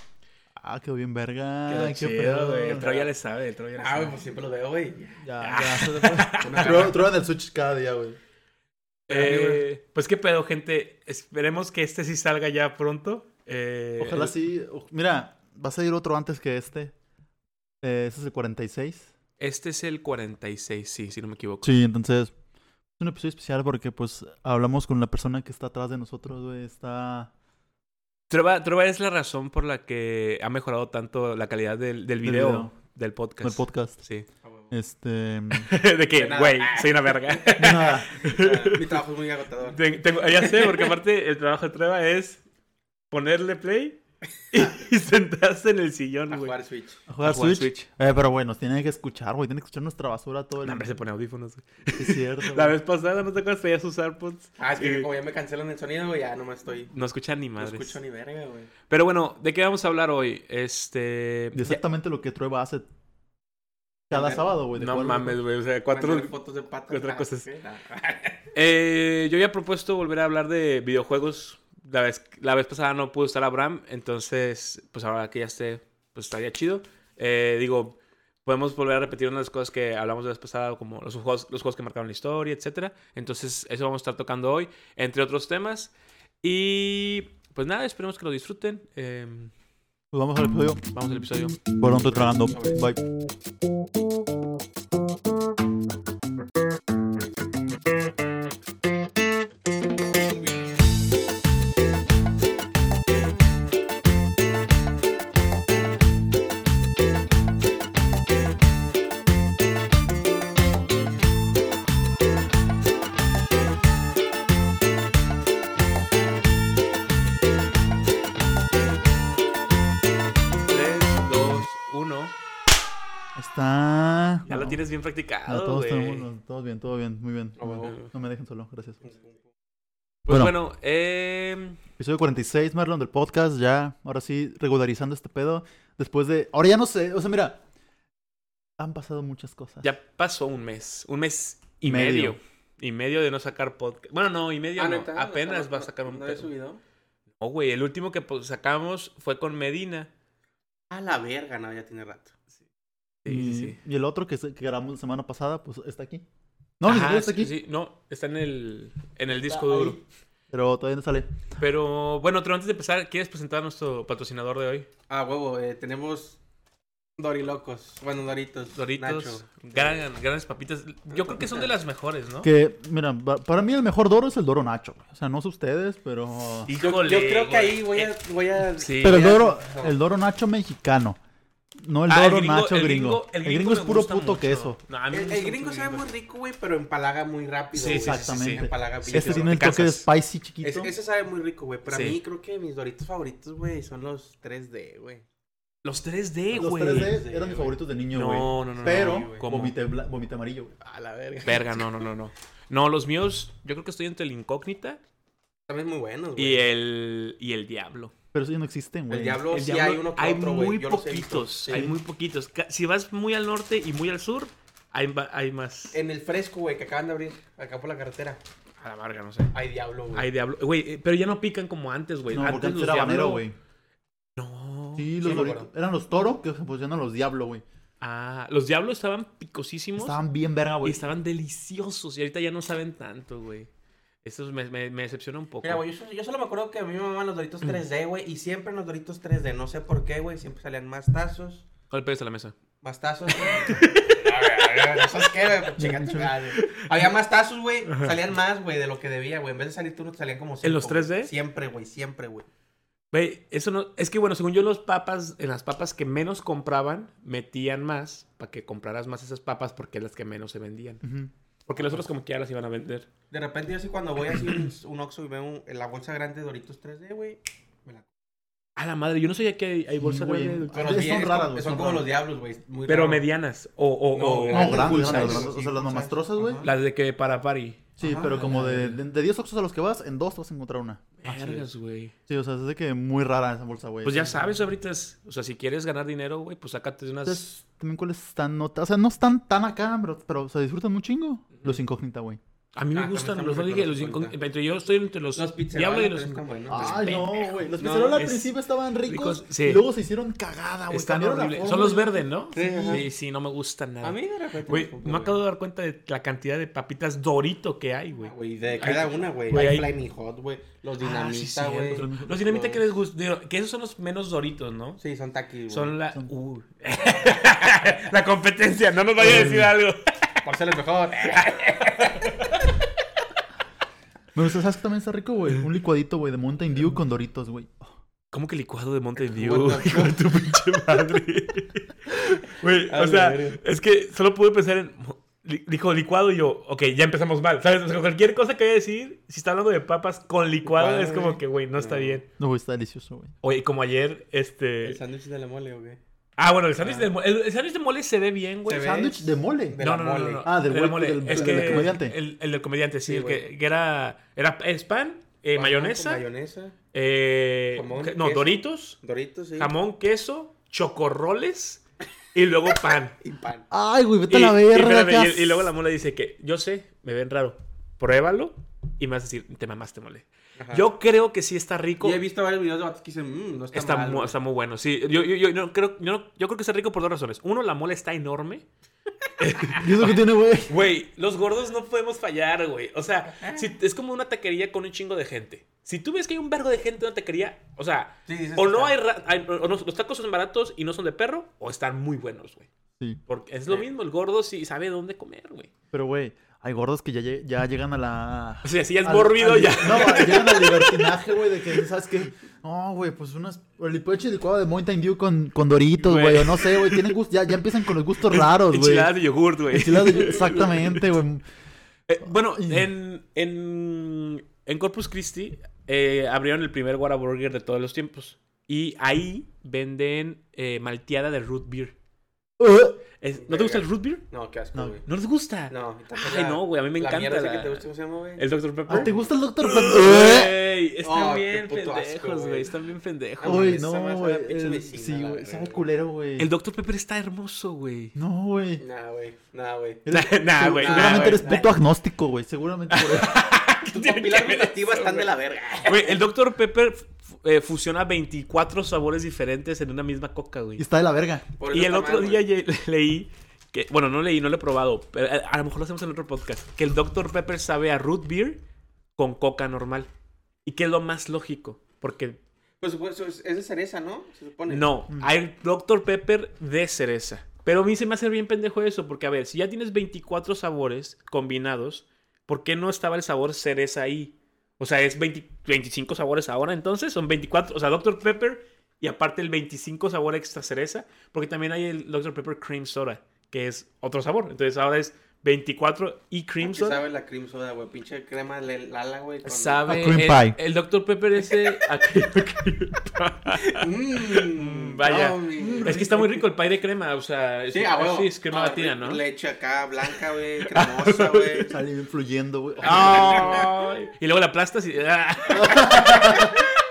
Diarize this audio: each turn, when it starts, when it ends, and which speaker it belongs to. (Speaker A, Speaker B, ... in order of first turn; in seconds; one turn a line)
Speaker A: 0.6-2.8
Speaker B: 1.7-4.2
Speaker C: 2.7-3.1
Speaker C: 3.8-5.2
Speaker A: 5.2-8.2
Speaker B: 5.4-6.9
Speaker C: 6.4-7.0
Speaker B: 9.1-14.3
Speaker C: 9.1-9.6
Speaker A: 9.2-9.5
Speaker A: 14.0-16.9
Speaker A: 17.8-19.1
Speaker B: 19.4-21.8
Speaker A: 21.6-22.3
Speaker A: 23.0-27.3
Speaker B: 28.3-34.3
Speaker A: 32.2-32.8
Speaker A: 33.4-34.0
Speaker C: 34.4-34.7
Speaker A: 34.7-35.7
Speaker B: 35.5-39.0
Speaker C: 36.2-37.6
Speaker A: 37.6-38.2
Speaker C: 38.2-40.9
Speaker B: 39.7-42.4
Speaker B: 43.1-44.0
Speaker B: 44.5-46.6
Speaker C: 46.3-47.0
Speaker A: 47.1-51.0
Speaker B: 47.2-47.9
Speaker B: 50.6-55.1
Speaker A: 52.0-52.8
Speaker C: 54.6-56.9
Speaker B: 56.9-58.0
Speaker C: 57.6-58.7
Speaker B: 58.9-61.8
Speaker A: 61.5-62.9
Speaker C: 64.1-64.5
Speaker A: 64.1-65.4
Speaker B: 64.7-66.3
Speaker C: 65.9-68.4
Speaker B: 66.9-67.5
Speaker B: 68.5-89.5
Speaker A: 90.1-90.8
Speaker B: 90.9-92.6
Speaker A: 91.8-93.0
Speaker C: 92.3-92.8
Speaker B: 120.7-122.3
Speaker A: 123.4-124.8
Speaker B: 124.5-126.3
Speaker A: 125.5-129.1
Speaker C: 127.6-128.0
Speaker C: 129.1-129.3
Speaker B: 130.3-131.8
Speaker A: 132.0-137.6
Speaker A: 138.8-139.9
Speaker B: 139.8-146.5
Speaker A: 141.8-142.4
Speaker C: 144.8-146.8
Speaker B: 147.4-150.1
Speaker C: 150.9-152.3
Speaker B: 153.2-153.8
Speaker A: 153.3-156.2
Speaker A: 156.8-157.5
Speaker B: 156.8-160.0
Speaker C: 159.4-160.0
Speaker A: 160.5-161.4
Speaker B: 161.6-164.9
Speaker C: 165.1-166.4
Speaker C: 167.2-170.1
Speaker B: 168.8-172.5
Speaker C: 171.1-171.7
Speaker A: 172.4-176.7
Speaker B: 176.6-178.1
Speaker C: 176.8-179.9
Speaker B: 178.8-179.3
Speaker A: 179.0-181.2
Speaker A: 181.8-184.8
Speaker B: 182.1-186.1
Speaker C: 185.1-189.6
Speaker B: 187.8-190.1
Speaker A: 188.0-190.9
Speaker C: 190.6-195.2
Speaker B: 191.9-192.2
Speaker B: 195.8-197.2
Speaker A: 196.5-200.7
Speaker C: 196.9-197.8
Speaker B: 198.1-199.8
Speaker C: 198.8-199.6
Speaker C: 200.8-201.9
Speaker B: 201.4-205.0
Speaker C: 205.7-206.6
Speaker B: 206.4-208.1
Speaker A: 208.3-209.4
Speaker C: 209.1-211.9
Speaker B: 209.5-216.0
Speaker C: 215.9-218.4
Speaker B: 218.8-219.6
Speaker C: 219.5-220.3
Speaker B: 220.1-223.4
Speaker A: 222.3-223.6
Speaker B: 224.4-225.5
Speaker A: 225.0-227.6
Speaker C: 225.2-225.7
Speaker B: 228.0-230.2
Speaker A: 230.0-231.0
Speaker B: 230.8-233.7
Speaker B: 234.2-235.8
Speaker C: 235.6-241.6
Speaker B: 241.9-242.5
Speaker C: 242.8-252.4
Speaker B: 243.3-245.8
Speaker A: 245.8-246.4
Speaker B: 246.6-246.8
Speaker B: 247.9-248.2
Speaker B: 250.6-251.3
Speaker B: 253.1-261.0
Speaker A: 261.0-261.3
Speaker B: 261.7-263.1
Speaker C: 261.7-262.1
Speaker C: 263.3-268.1
Speaker B: 268.8-271.2
Speaker A: 270.0-272.1
Speaker C: 270.7-273.2
Speaker B: 272.9-275.5
Speaker C: 274.1-276.7
Speaker A: 274.5-276.6
Speaker B: 276.6-279.0
Speaker A: 278.0-281.6
Speaker C: 278.0-278.4
Speaker B: 281.2-282.1
Speaker A: 282.3-284.4
Speaker B: 284.0-287.5
Speaker A: 287.2-292.4
Speaker B: 292.8-298.5
Speaker C: 292.9-294.4
Speaker C: 295.4-297.2
Speaker A: 296.7-303.0
Speaker C: 297.8-298.2
Speaker B: 299.1-299.8
Speaker B: 300.9-309.9
Speaker C: 302.5-303.1
Speaker C: 304.0-305.4
Speaker C: 308.2-312.8
Speaker B: 311.0-315.0
Speaker A: 311.9-312.3
Speaker C: 315.0-316.0
Speaker B: 315.7-320.4
Speaker A: 319.2-319.8
Speaker C: 320.4-322.3
Speaker B: 321.2-322.6
Speaker A: 324.4-327.9
Speaker B: 328.3-342.3
Speaker C: 329.3-330.3
Speaker C: 332.9-333.6
Speaker C: 340.6-342.2
Speaker A: 342.4-343.3
Speaker B: 343.4-345.0
Speaker C: 344.8-346.0
Speaker B: 346.4-349.0
Speaker C: 346.8-347.1
Speaker C: 348.7-350.5
Speaker A: 348.7-349.8
Speaker B: 349.8-356.2
Speaker A: 350.4-352.1
Speaker C: 351.3-351.9
Speaker C: 353.1-353.4
Speaker C: 355.6-356.8
Speaker B: 356.9-359.0
Speaker C: 357.7-359.7
Speaker B: 359.6-361.8
Speaker B: 362.3-363.2
Speaker C: 363.2-363.6
Speaker A: 363.7-365.7
Speaker B: 364.3-372.2
Speaker C: 370.6-370.9
Speaker C: 372.0-374.4
Speaker B: 373.7-378.7
Speaker B: 379.4-392.7
Speaker A: 379.8-380.8
Speaker C: 383.4-383.7
Speaker C: 388.3-388.9
Speaker B: 393.3-395.7
Speaker A: 395.9-409.1
Speaker B: 398.6-401.2
Speaker B: 406.0-407.1
Speaker B: 408.2-411.0
Speaker A: 409.7-411.4
Speaker B: 412.1-421.9
Speaker A: 412.6-412.9
Speaker A: 422.6-423.0
Speaker B: 423.2-424.2
Speaker C: 423.4-425.1
Speaker B: 425.1-427.9
Speaker C: 425.7-429.2
Speaker B: 428.4-433.8
Speaker A: 428.9-430.6
Speaker C: 431.0-432.7
Speaker C: 433.4-435.9
Speaker A: 433.4-436.5
Speaker B: 436.4-438.1
Speaker A: 438.1-438.8
Speaker C: 438.8-440.0
Speaker A: 440.1-443.3
Speaker B: 440.1-441.6
Speaker C: 440.6-441.7
Speaker B: 442.9-445.3
Speaker C: 443.9-446.2
Speaker B: 445.9-450.8
Speaker A: 450.8-451.4
Speaker C: 451.6-452.4
Speaker B: 451.7-458.6
Speaker B: 459.2-460.1
Speaker B: 460.7-462.4
Speaker C: 462.8-464.9
Speaker B: 464.7-487.0
Speaker C: 486.6-489.8
Speaker B: 489.5-499.2
Speaker A: 489.9-490.6
Speaker C: 491.5-491.9
Speaker C: 493.6-495.9
Speaker A: 495.1-496.4
Speaker C: 497.7-501.8
Speaker B: 500.7-501.7
Speaker A: 501.7-503.7
Speaker B: 502.8-506.6
Speaker C: 502.8-503.7
Speaker A: 505.5-506.5